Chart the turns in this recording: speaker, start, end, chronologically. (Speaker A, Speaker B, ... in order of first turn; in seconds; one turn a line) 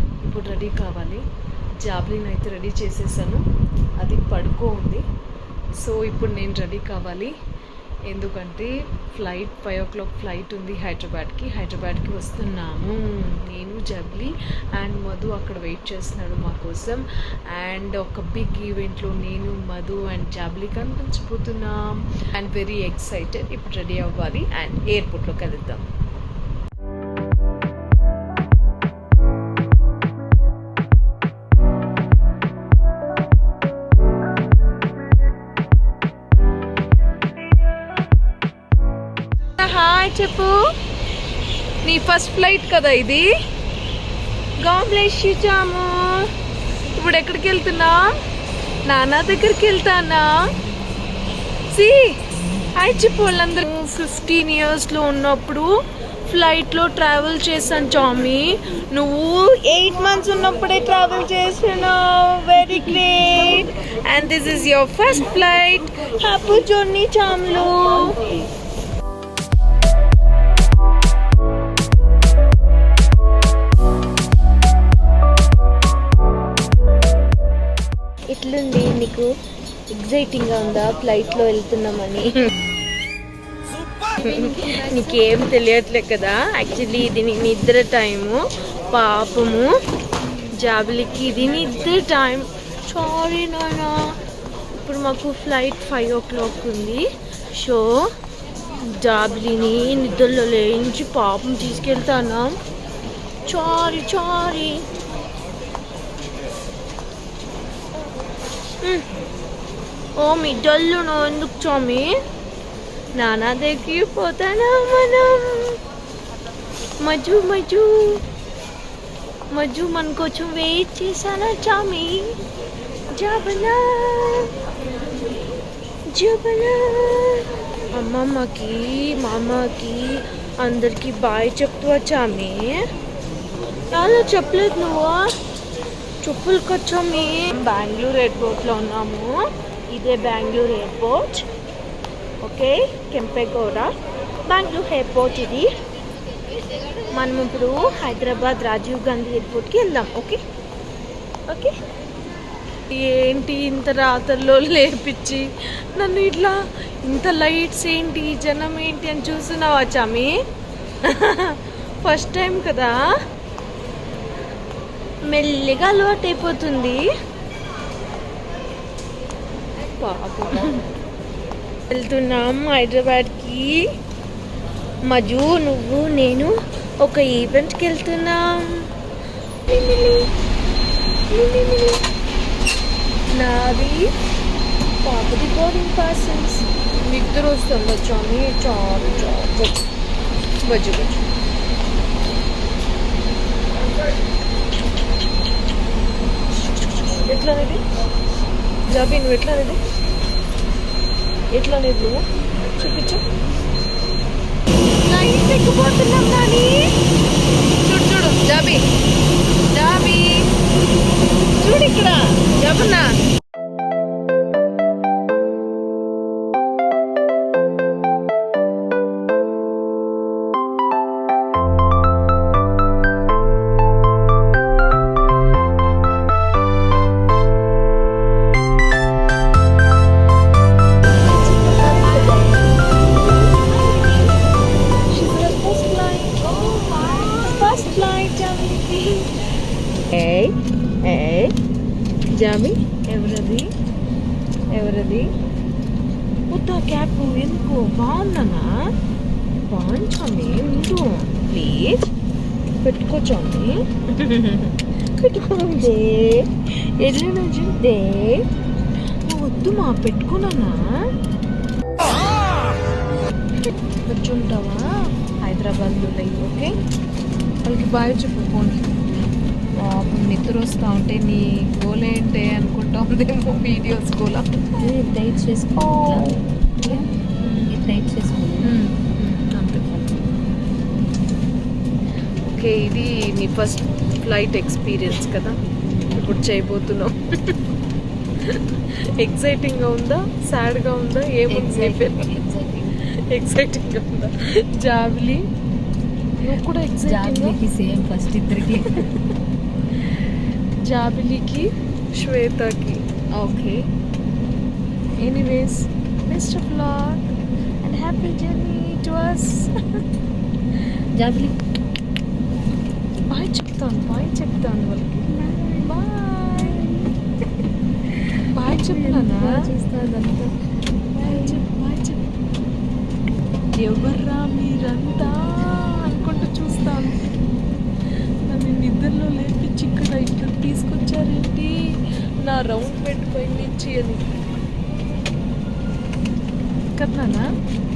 Speaker A: 0.2-1.2
Speaker A: 1.8-3.4
Speaker A: 4.0-5.0
Speaker A: 5.8-7.3
Speaker A: 8.1-25.9
Speaker A: 39.5-40.6
Speaker A: 41.8-43.3
Speaker A: 44.6-46.3
Speaker A: 46.9-48.0
Speaker A: 48.8-50.4
Speaker A: 51.7-55.7
Speaker A: 56.3-68.2
Speaker A: 78.3-79.3
Speaker A: 79.9-82.3
Speaker A: 84.2-89.7
Speaker B: 84.3-85.0
Speaker A: 90.5-94.0
Speaker A: 94.8-98.1
Speaker A: 98.8-102.6
Speaker A: 103.5-104.8
Speaker A: 110.2-112.2
Speaker A: 113.2-115.8
Speaker A: 117.0-118.2
Speaker A: 119.5-122.3
Speaker A: 123.2-124.5
Speaker A: 126.1-132.8
Speaker A: 133.9-135.3
Speaker A: 136.2-139.3
Speaker A: 139.9-141.4
Speaker A: 142.4-143.9
Speaker A: 144.4-145.7
Speaker A: 147.1-150.4
Speaker A: 151.5-151.7
Speaker A: 152.9-160.3
Speaker A: 161.0-162.9
Speaker A: 165.3-167.0
Speaker A: 169.8-170.9
Speaker A: 171.9-173.8
Speaker A: 175.1-178.8
Speaker A: 179.7-180.3
Speaker A: 181.3-182.0
Speaker A: 183.3-184.1
Speaker A: 185.0-189.8
Speaker A: 190.6-191.2
Speaker A: 197.1-197.8
Speaker A: 198.9-199.8
Speaker A: 201.5-203.2
Speaker A: 205.0-206.9
Speaker A: 207.8-208.8
Speaker A: 209.7-210.5
Speaker A: 211.6-213.1
Speaker A: 231.2-234.3
Speaker A: 235.1-239.3
Speaker A: 240.1-241.5
Speaker A: 242.3-243.7
Speaker A: 244.7-245.3
Speaker A: 246.5-248.7
Speaker A: 249.7-252.1
Speaker A: 252.8-258.4
Speaker A: 259.2-260.8
Speaker A: 263.6-264.9
Speaker A: 265.4-266.7
Speaker A: 267.6-269.0
Speaker A: 269.8-274.9
Speaker B: 274.8-277.1
Speaker A: 277.4-277.8
Speaker B: 277.6-278.7
Speaker A: 278.6-280.2
Speaker A: 282.4-287.6
Speaker A: 288.4-295.4
Speaker B: 291.5-292.9
Speaker A: 296.4-297.6
Speaker B: 297.1-299.0
Speaker A: 299.9-303.9
Speaker A: 305.2-310.0
Speaker B: 311.1-311.6
Speaker A: 313.1-316.8
Speaker B: 315.3-316.0
Speaker B: 316.5-317.1
Speaker A: 318.1-319.5
Speaker B: 318.7-320.5
Speaker B: 321.1-321.6
Speaker A: 321.2-322.3
Speaker A: 323.8-327.3
Speaker A: 328.5-331.7
Speaker A: 332.4-334.3
Speaker A: 336.9-337.5